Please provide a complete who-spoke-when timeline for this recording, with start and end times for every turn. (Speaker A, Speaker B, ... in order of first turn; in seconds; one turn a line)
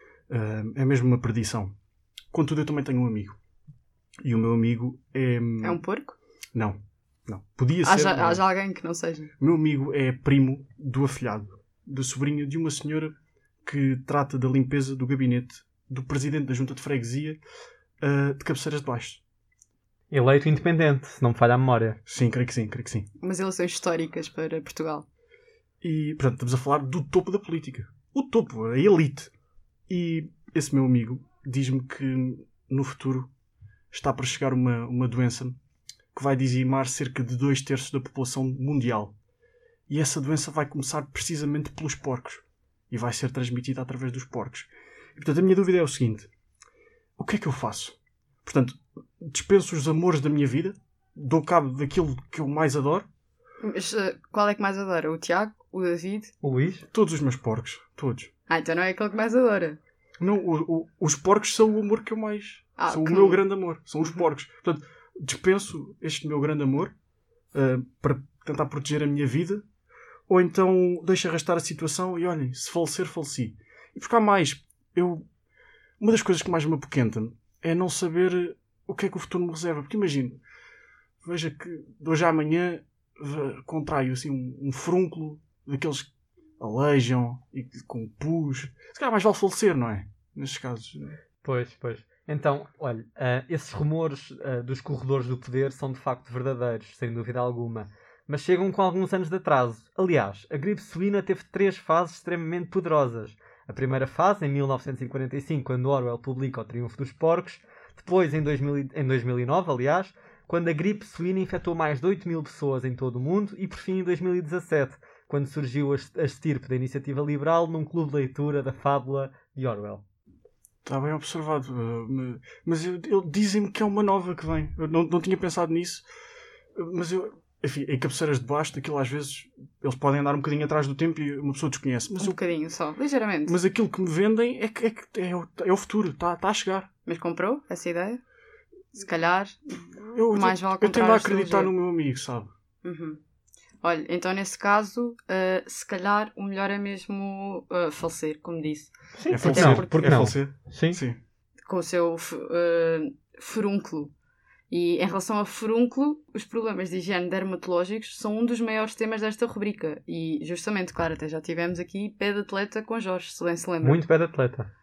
Speaker A: 0.3-1.7
Speaker A: 2.3-3.4
Speaker A: 4.2-5.8
Speaker B: 5.6-6.2
Speaker A: 6.5-8.4
Speaker B: 7.8-9.3
Speaker A: 9.4-17.4
Speaker A: 18.0-19.2
Speaker C: 20.1-22.0
Speaker A: 22.1-23.1
Speaker B: 23.2-25.1
Speaker A: 25.8-29.3
Speaker A: 29.9-33.3
Speaker A: 33.9-35.6
Speaker A: 36.1-39.1
Speaker A: 39.9-46.3
Speaker A: 47.1-53.0
Speaker B: 53.6-56.3
Speaker C: 56.4-56.9
Speaker A: 56.9-58.3
Speaker B: 58.5-59.8
Speaker A: 60.2-66.9
Speaker B: 62.8-63.4
Speaker A: 67.5-69.6
Speaker A: 70.3-75.2
Speaker A: 76.0-80.4
Speaker A: 81.2-91.2
Speaker C: 91.4-120.0
Speaker A: 120.8-126.0
Speaker A: 126.7-132.4
Speaker B: 132.2-133.6
Speaker A: 133.5-136.9
Speaker B: 137.1-138.2
Speaker B: 138.9-141.7
Speaker A: 140.0-142.5
Speaker B: 142.8-143.2
Speaker B: 143.8-150.3
Speaker C: 149.2-151.0
Speaker A: 149.3-151.2
Speaker B: 151.7-154.1
Speaker B: 154.7-164.0
Speaker C: 163.8-164.7